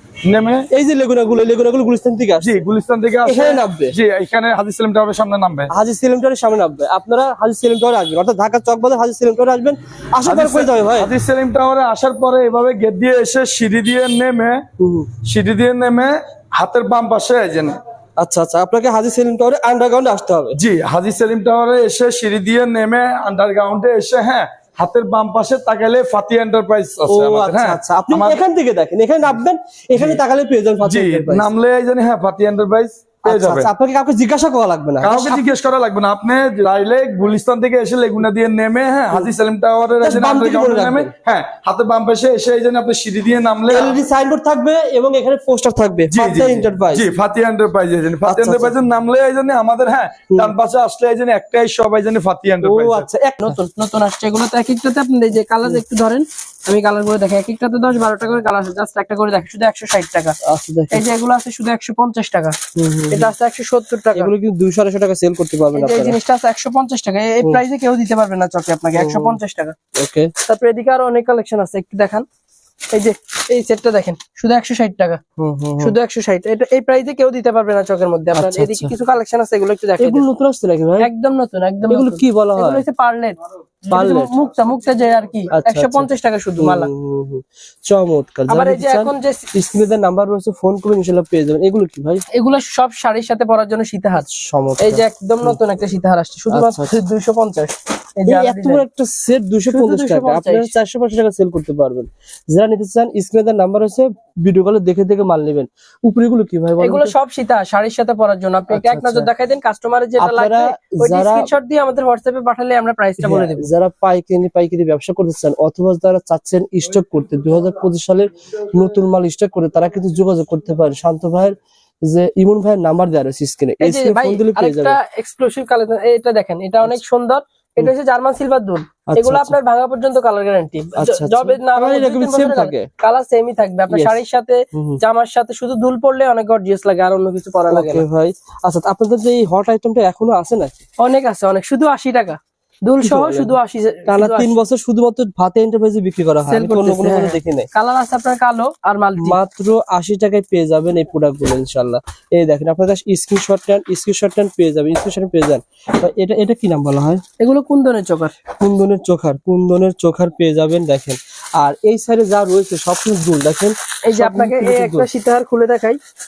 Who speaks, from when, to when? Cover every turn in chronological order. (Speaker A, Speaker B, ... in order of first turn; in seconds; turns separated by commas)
Speaker A: 0.3-0.7, Speaker B: 0.7-2.6, Speaker A: 2.4-5.7, Speaker B: 3.2-3.9, Speaker B: 5.7-11.1, Speaker A: 10.2-14.6, Speaker B: 14.8-15.1, Speaker A: 15.2-17.8, Speaker B: 18.2-20.6, Speaker A: 20.6-28.4, Speaker B: 27.1-31.5, Speaker A: 30.8-33.7, Speaker B: 33.2-35.3, Speaker A: 35.0-44.0, Speaker B: 40.0-41.1, Speaker B: 43.7-47.1, Speaker A: 46.1-53.1, Speaker B: 48.2-48.8, Speaker B: 52.6-53.6, Speaker C: 53.4-60.4, Speaker B: 60.4-61.0, Speaker C: 60.9-62.6, Speaker B: 62.7-63.3, Speaker C: 63.1-64.3, Speaker B: 64.1-66.2, Speaker C: 65.7-69.8, Speaker B: 68.9-69.4, Speaker B: 70.0-70.3, Speaker C: 70.4-72.2, Speaker C: 72.9-75.2, Speaker B: 75.4-75.9, Speaker C: 75.8-80.2, Speaker B: 78.3-78.9, Speaker B: 80.0-81.1, Speaker C: 81.0-83.4, Speaker B: 81.9-82.8, Speaker B: 83.9-84.3, Speaker C: 83.9-86.9, Speaker B: 85.5-86.1, Speaker B: 86.6-92.2, Speaker C: 88.5-89.5, Speaker C: 92.3-94.2, Speaker B: 94.2-95.5, Speaker C: 94.8-98.8, Speaker B: 96.5-96.9, Speaker B: 98.2-107.1, Speaker C: 99.7-100.7, Speaker C: 106.8-113.7, Speaker B: 108.7-109.3, Speaker B: 110.2-111.5, Speaker B: 113.2-125.0, Speaker C: 123.8-138.0, Speaker B: 129.1-129.5, Speaker B: 130.9-132.9, Speaker B: 133.9-134.2, Speaker B: 134.7-135.0, Speaker B: 137.7-140.7, Speaker C: 141.0-144.5, Speaker B: 143.0-143.5, Speaker B: 144.1-147.7, Speaker C: 146.4-149.4, Speaker B: 149.2-157.2, Speaker C: 157.4-158.4, Speaker B: 158.6-165.1, Speaker C: 164.1-166.0